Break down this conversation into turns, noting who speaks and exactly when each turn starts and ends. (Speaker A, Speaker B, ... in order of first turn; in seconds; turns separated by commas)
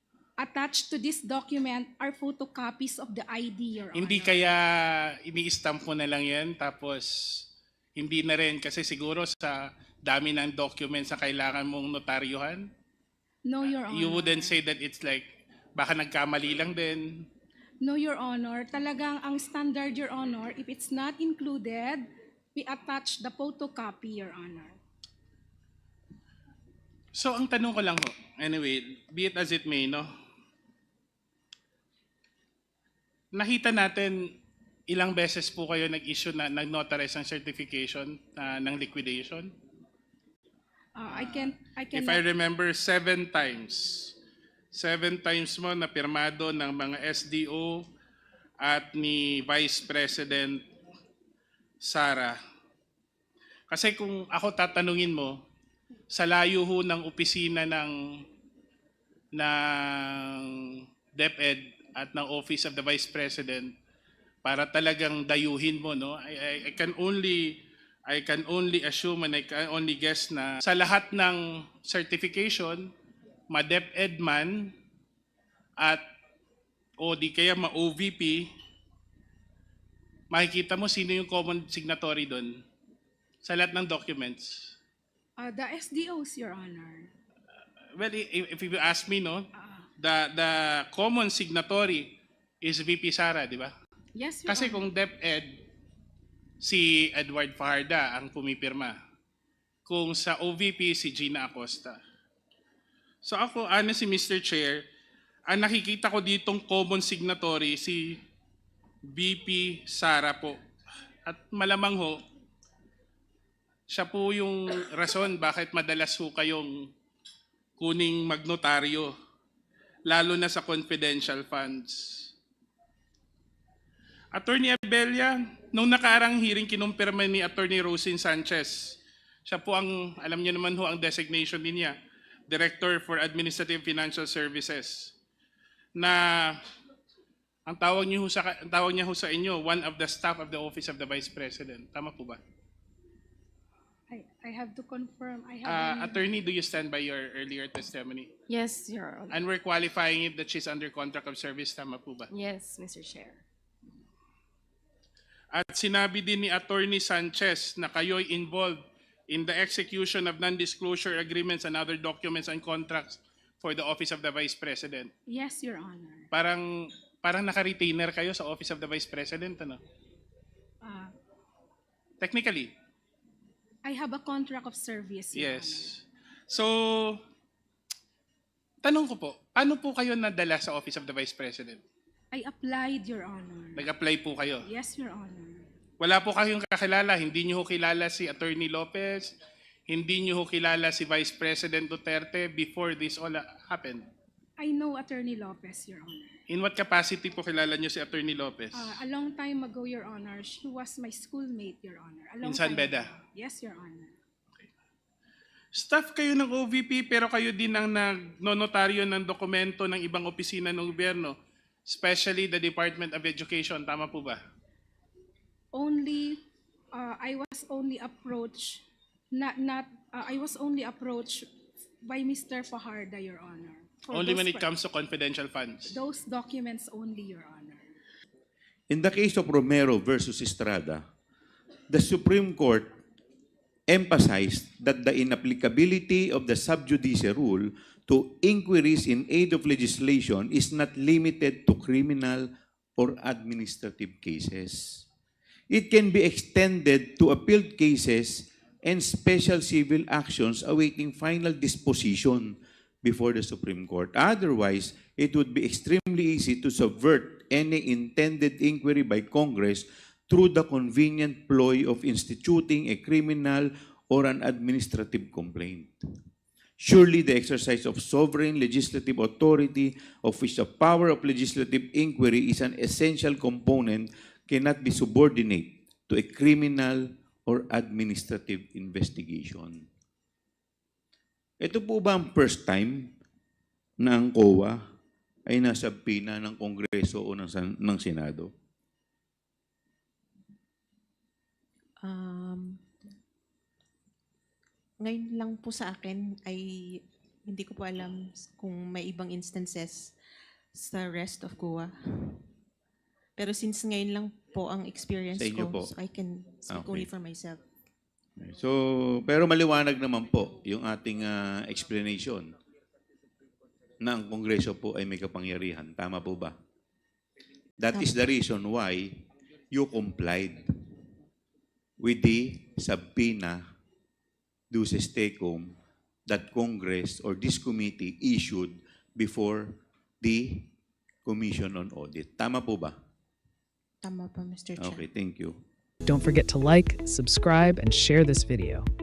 Speaker A: 0.4-4.5, Speaker B: 4.0-7.4, Speaker B: 8.0-12.7, Speaker A: 13.5-14.6, Speaker B: 13.9-17.3, Speaker A: 17.8-24.8, Speaker B: 27.1-30.1, Speaker B: 33.3-34.2, Speaker B: 34.9-39.5, Speaker A: 41.0-42.2, Speaker B: 41.1-44.1, Speaker B: 44.7-47.9, Speaker B: 48.6-50.6, Speaker B: 51.8-52.4, Speaker B: 53.7-55.4, Speaker B: 56.1-58.0, Speaker B: 59.4-63.7, Speaker B: 64.4-72.9, Speaker B: 73.5-74.7, Speaker B: 77.0-78.5, Speaker B: 80.3-82.6, Speaker B: 83.4-84.7, Speaker A: 85.4-87.1, Speaker B: 88.0-89.5, Speaker A: 89.5-89.9, Speaker B: 90.0-93.7, Speaker A: 94.2-94.9, Speaker B: 94.5-95.6, Speaker B: 96.6-99.0, Speaker B: 99.9-102.0, Speaker B: 103.2-104.8, Speaker B: 105.5-108.2, Speaker B: 109.1-110.6, Speaker B: 111.3-112.2, Speaker B: 113.9-116.9, Speaker B: 117.8-119.1, Speaker B: 120.1-122.3, Speaker B: 124.3-132.0, Speaker B: 132.5-135.1, Speaker B: 136.0-136.6, Speaker B: 137.7-142.4, Speaker A: 144.1-146.4, Speaker B: 145.7-148.3, Speaker C: 148.5-149.3, Speaker B: 149.3-152.3, Speaker C: 152.3-153.4, Speaker B: 155.5-165.1, Speaker A: 165.3-166.3, Speaker B: 166.3-169.8, Speaker A: 170.8-171.1, Speaker B: 172.2-172.7, Speaker A: 173.8-175.9, Speaker B: 175.3-177.2, Speaker B: 178.8-181.8, Speaker A: 182.3-183.9, Speaker B: 183.8-184.7, Speaker A: 184.7-185.7, Speaker B: 186.0-189.3, Speaker B: 189.9-194.1, Speaker A: 194.6-196.4, Speaker B: 196.5-199.0, Speaker A: 198.7-204.2, Speaker B: 202.4-203.1, Speaker B: 205.7-214.4, Speaker A: 215.7-216.4, Speaker A: 216.9-221.5, Speaker A: 222.0-224.7, Speaker B: 224.1-225.9, Speaker A: 225.9-227.8, Speaker D: 228.9-231.0, Speaker D: 231.9-232.9, Speaker D: 233.9-242.5, Speaker D: 243.0-245.0, Speaker D: 245.7-266.0, Speaker D: 266.8-279.9, Speaker D: 281.6-283.1, Speaker D: 284.0-284.8, Speaker D: 285.5-288.5, Speaker E: 292.0-292.8, Speaker E: 295.0-300.1, Speaker E: 300.8-302.4, Speaker E: 303.4-307.6, Speaker D: 305.4-305.9, Speaker D: 306.7-307.1, Speaker D: 308.4-312.5, Speaker D: 314.0-316.5, Speaker D: 317.8-319.2, Speaker D: 319.7-320.6, Speaker D: 322.0-323.6, Speaker D: 324.7-325.8, Speaker D: 326.3-330.7, Speaker D: 331.3-332.9, Speaker E: 334.0-335.1, Speaker D: 334.8-335.6, Speaker F: 336.1-338.9